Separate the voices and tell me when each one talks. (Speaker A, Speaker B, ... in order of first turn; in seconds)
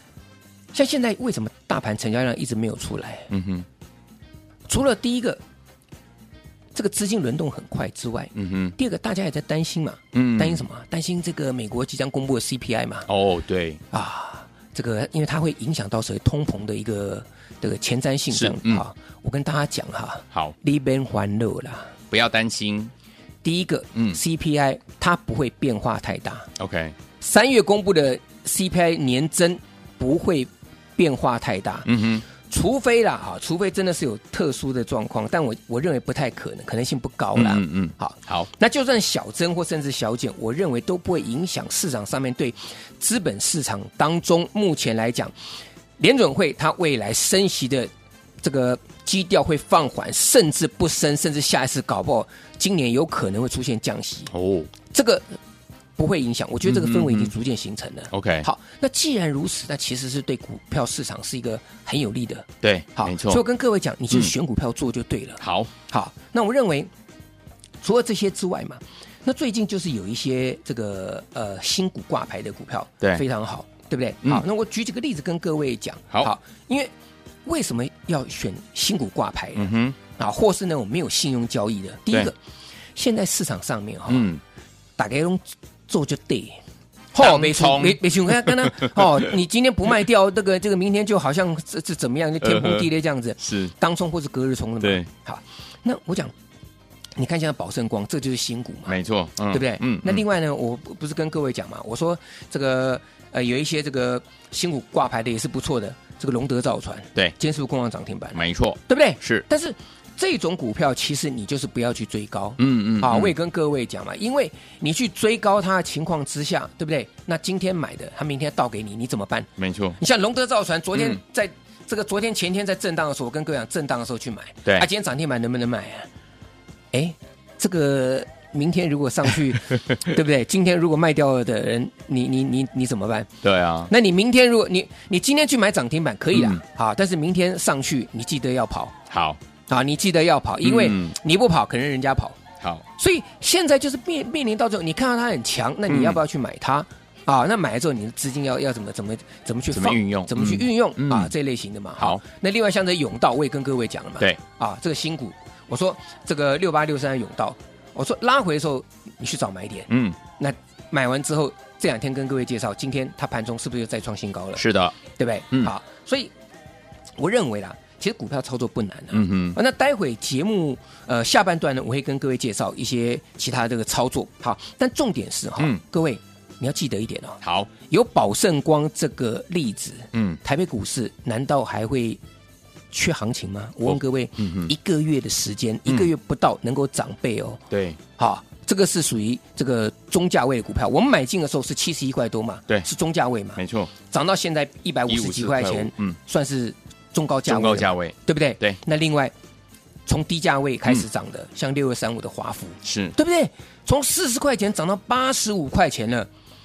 Speaker A: 0.7-3.3, 4.7-5.4, 6.7-13.1, 13.9-21.9, 23.4-26.5, 27.2-45.3, 46.0-47.9, 48.4-54.3, 54.9-55.3, 56.0-66.9, 67.8-76.9, 77.5-82.3, 83.0-84.3, 85.0-86.6, 87.1-96.3, 97.2-99.0, 99.5-126.1, 126.9-133.3, 133.9-138.9, 139.7-142.4, 142.9-166.3, 167.2-182.2, 182.9-187.6, 188.2-199.3, 200.1-206.3
Speaker B: 3.3-3.6, 8.3-8.7, 10.1-10.6, 13.1-13.8, 18.3-18.8, 22.1-22.9, 26.6-26.9, 31.8-32.2, 37.3-38.5, 54.3-54.7, 56.6-57.3, 58.1-58.5, 62.6-63.4, 65.4-65.7, 79.5-80.0, 84.1-84.4, 87.2-89.3, 92.4-92.9, 93.4-93.7, 94.8-95.1, 98.9-100.2, 108.3-109.4, 112.6-113.3, 119.6-120.0, 133.4-133.9, 136.3-136.6, 139.1-139.4, 140.6-141.1, 145.9-146.2, 149.7-151.3, 159.9-160.2, 164.6-165.0, 169.1-169.6, 177.4-177.7, 180.1-180.4, 183.8-184.7, 187.7-188.0, 193.6-193.9, 195.1-196.2, 197.5-198.8, 202.8-203.1